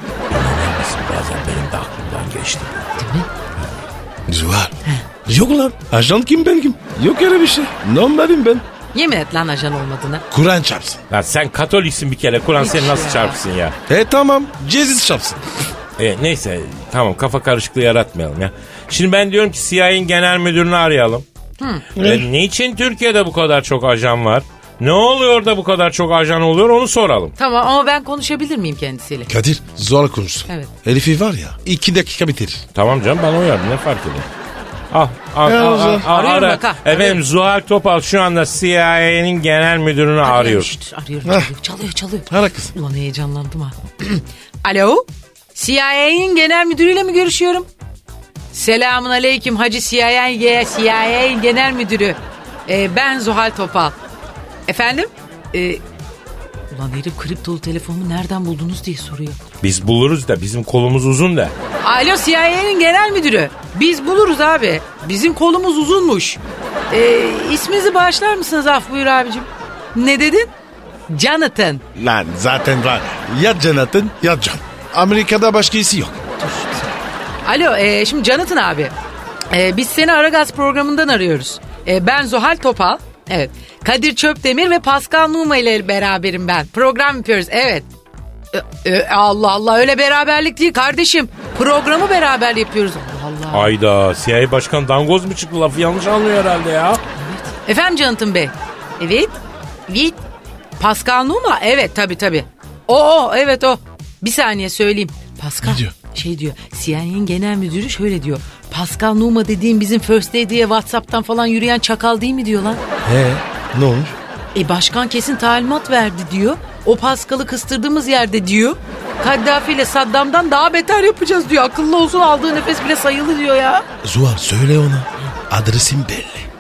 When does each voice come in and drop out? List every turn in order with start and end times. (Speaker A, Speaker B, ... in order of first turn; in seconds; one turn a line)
Speaker A: 0.3-2.9
Speaker B: 3.0-3.3
Speaker C: 4.3-4.7
Speaker C: 5.2-8.6
Speaker B: 8.9-10.2
Speaker C: 10.3-11.0
Speaker A: 11.1-13.7
Speaker B: 12.6-13.4
Speaker C: 13.9-15.4
Speaker A: 16.0-21.2
Speaker B: 21.6-21.8
Speaker A: 21.9-27.3
Speaker C: 22.0-22.2
Speaker B: 27.4-29.3
Speaker C: 29.3-32.6
Speaker A: 32.7-34.3
Speaker A: 34.9-40.7
Speaker C: 35.4-36.1
Speaker B: 36.0-37.2
Speaker B: 40.2-47.7
Speaker C: 41.2-41.5
Speaker C: 42.3-42.7
Speaker B: 48.5-54.0
Speaker B: 54.7-55.8
Speaker B: 56.7-59.4
Speaker A: 59.6-61.5
Speaker B: 61.8-66.4
Speaker B: 66.9-70.5
Speaker B: 71.1-71.8
Speaker C: 71.9-76.2
Speaker B: 76.4-76.9
Speaker B: 77.4-78.9
Speaker B: 79.5-87.9
Speaker B: 88.5-93.7
Speaker A: 93.5-97.0
Speaker B: 97.1-100.2
Speaker B: 100.8-112.8
Speaker C: 105.6-105.9
Speaker C: 113.0-114.2
Speaker B: 114.5-123.8
Speaker C: 124.0-126.5